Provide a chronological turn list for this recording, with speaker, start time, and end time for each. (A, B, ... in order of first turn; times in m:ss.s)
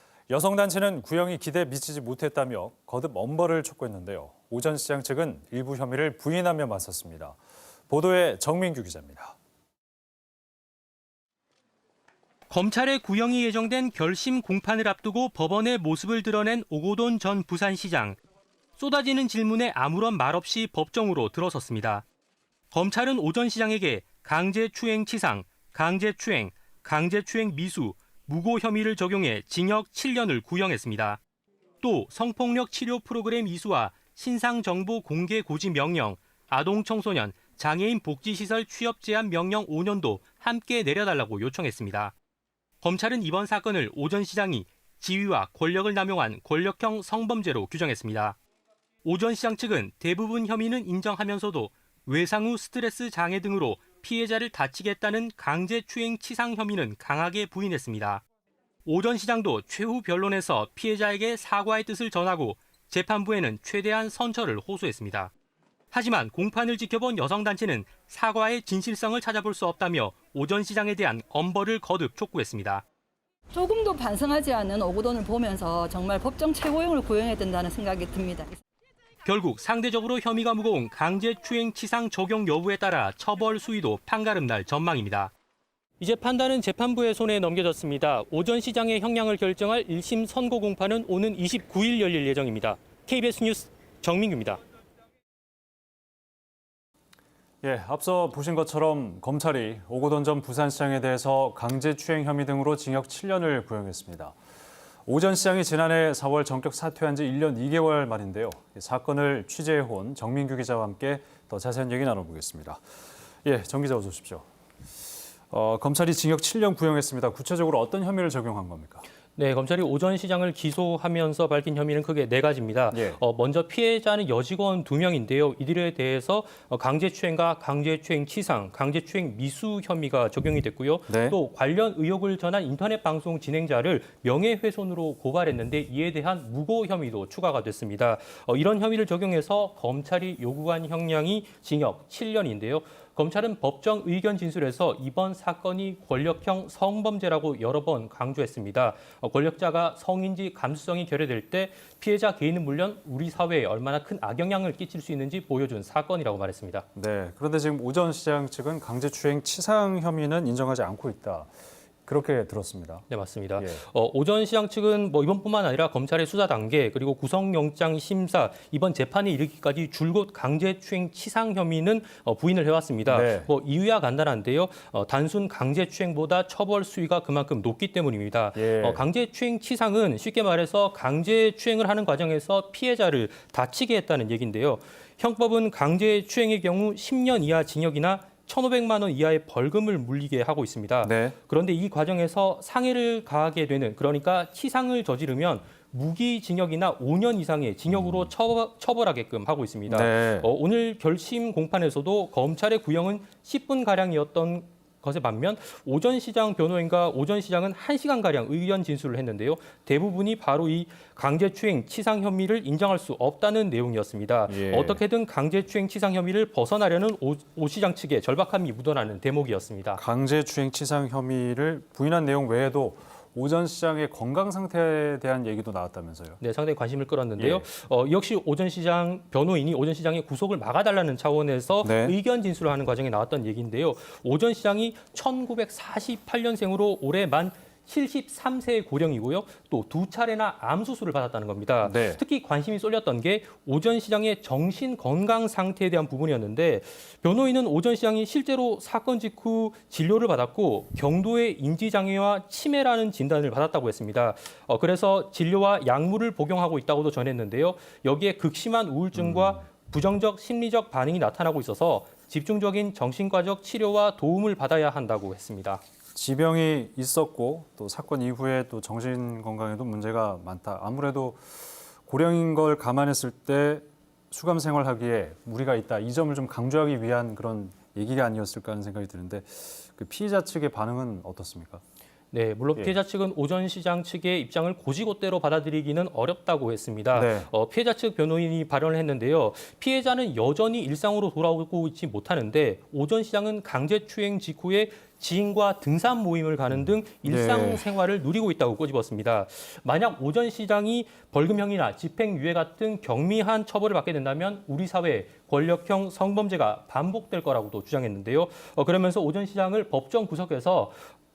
0:00.3-0:07.4 A
0:07.9-0:09.4 A
0:12.5-0:18.2 B
0:18.8-0:22.0 B
0:22.7-0:31.2 B
0:31.8-0:42.2 B
0:42.8-0:48.4 B
0:49.0-0:58.2 B
0:58.8-1:05.3 B
1:05.9-1:12.8 B
1:13.5-1:18.6 C
1:19.2-1:25.3 B
1:26.0-1:34.6 B
1:37.6-1:44.3 A
1:45.1-1:52.8 A
1:53.4-1:54.4 A
1:55.5-1:59.1 A
1:59.4-2:36.8 B
2:02.9-2:03.2 A
2:11.1-2:11.4 A
2:37.0-2:41.5 A
2:42.1-2:43.0 A
2:43.1-3:40.0 B
2:43.6-2:43.8 A
2:53.1-2:53.5 A
2:58.6-2:59.0 A
3:11.0-3:11.3 A
3:19.9-3:20.5 A
3:34.5-3:35.0 A
3:40.0-3:46.4 A
3:46.4-4:25.8 B
3:47.4-3:47.7 A
3:51.8-3:52.2 A
4:01.8-4:02.2 A
4:19.1-4:19.6 A
4:26.1-4:41.8 A
4:42.3-5:11.0 B
4:47.1-4:47.5 A
4:57.2-4:57.8 A